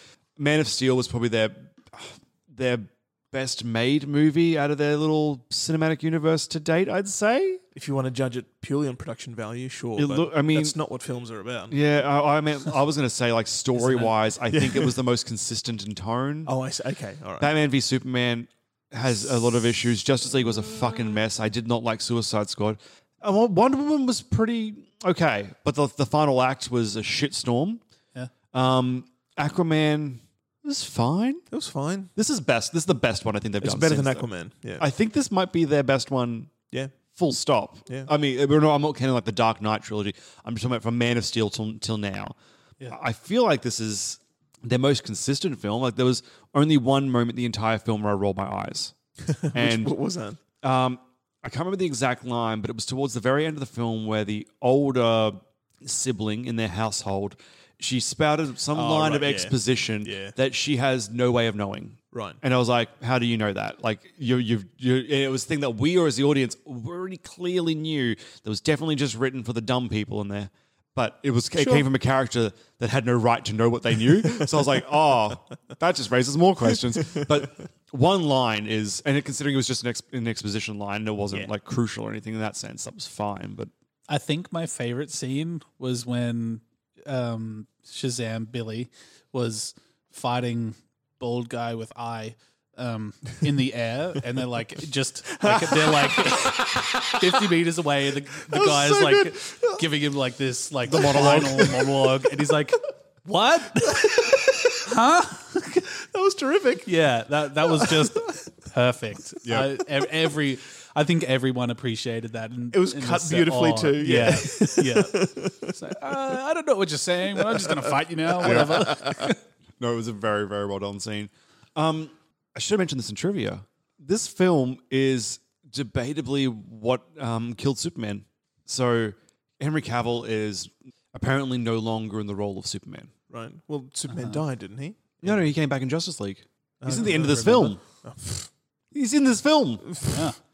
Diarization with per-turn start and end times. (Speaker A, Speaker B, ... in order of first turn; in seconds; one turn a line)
Speaker A: 0.4-7.6
Speaker B: 7.7-11.8
Speaker A: 10.0-10.8
Speaker A: 11.7-16.5
Speaker B: 13.8-14.9
Speaker B: 16.4-17.5
Speaker A: 17.4-27.8
Speaker A: 28.5-31.4
Speaker B: 31.5-32.1
Speaker A: 32.1-34.3
Speaker B: 33.6-34.9
Speaker A: 34.8-36.6
Speaker A: 37.1-42.3
Speaker A: 42.9-48.9
Speaker B: 49.2-50.4
Speaker A: 49.5-49.9
Speaker A: 50.6-83.7
Speaker B: 58.7-60.3
Speaker B: 62.1-62.4
Speaker B: 71.5-71.9
Speaker C: 84.1-105.6
Speaker B: 95.3-96.5
Speaker B: 98.5-99.8
Speaker A: 100.9-101.8
Speaker B: 100.9-101.8
Speaker B: 104.0-104.6
Speaker B: 105.7-106.9
Speaker C: 106.8-119.4
Speaker B: 107.6-108.3
Speaker A: 109.4-109.7
Speaker B: 112.7-115.7
Speaker A: 118.4-119.3
Speaker B: 118.5-119.1
Speaker A: 119.8-133.1
Speaker B: 133.3-135.2
Speaker C: 134.1-134.4
Speaker A: 135.2-137.8
Speaker B: 136.8-138.5
Speaker C: 136.9-137.7
Speaker A: 138.9-140.1
Speaker C: 140.1-140.4